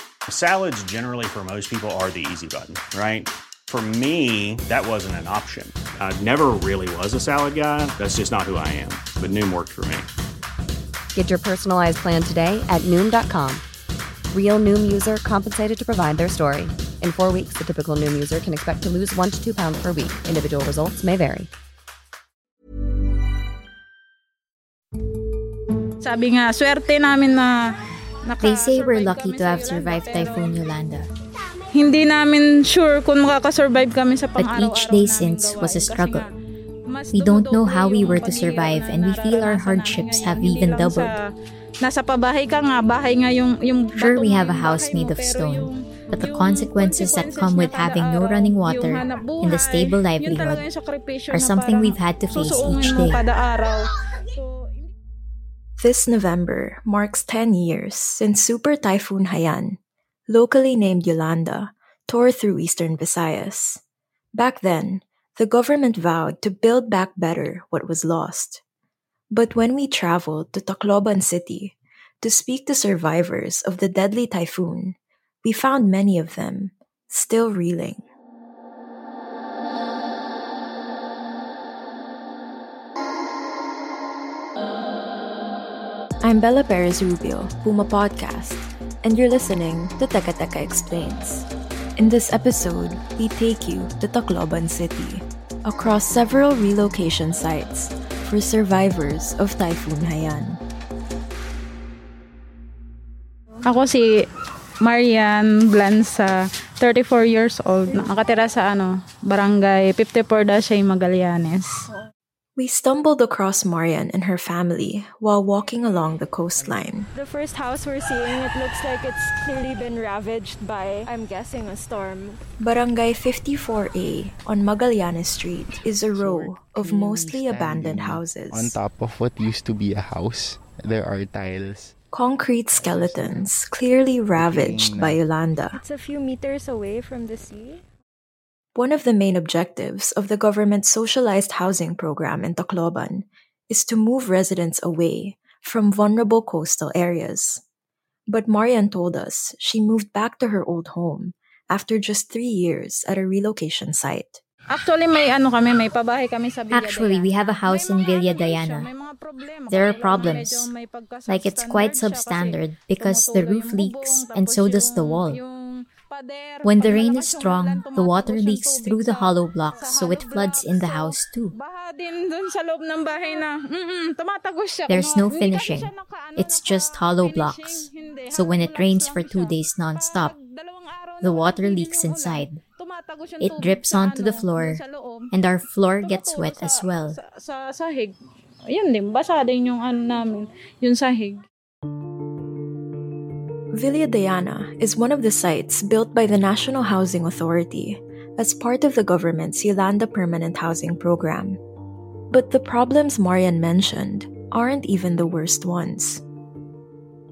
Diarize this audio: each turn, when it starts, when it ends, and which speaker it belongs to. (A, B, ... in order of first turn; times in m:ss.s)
0:00.3-0:10.1 A
0:11.1-0:13.6 B
0:14.3-0:21.5 B
0:26.0-0:27.5 C
0:28.3-0:30.5 C
0:28.4-0:31.1 D
0:31.7-0:36.3 C
0:34.4-0:36.2 D
0:36.9-0:41.1 C
0:37.1-0:41.1 D
0:41.8-0:54.9 C
0:44.0-0:50.6 D
0:51.3-0:53.2 D
0:55.8-1:03.8 E
1:04.4-1:08.6 E
1:09.3-1:18.0 E
1:26.2-1:40.6 E
1:43.7-1:44.1 C
1:44.8-1:51.8 C
1:52.6-1:57.1 E
1:57.2-2:02.4 F
2:02.6-2:08.8 E
2:06.1-2:11.9 G
2:12.1-2:15.8 E
2:12.8-2:13.5 G
2:14.3-2:15.2 G
2:15.8-2:17.8 F
2:18.8-2:27.6 E
2:28.3-2:34.4 E
2:34.7-2:45.5 C
2:36.7-2:38.9 D
2:39.7-2:40.7 D
2:41.3-2:45.4 D
2:46.1-2:49.3 C
2:46.6-2:51.5 D
2:49.8-2:56.6 C
2:54.9-3:00.3 D
2:57.1-2:59.5 C
3:00.2-3:05.1 C
3:01.2-3:02.6 D
3:03.4-3:04.8 D
3:05.3-3:07.2 D
3:06.0-3:08.1 C
3:08.7-3:11.4 C
3:13.7-3:21.6 E
3:22.3-3:26.2 E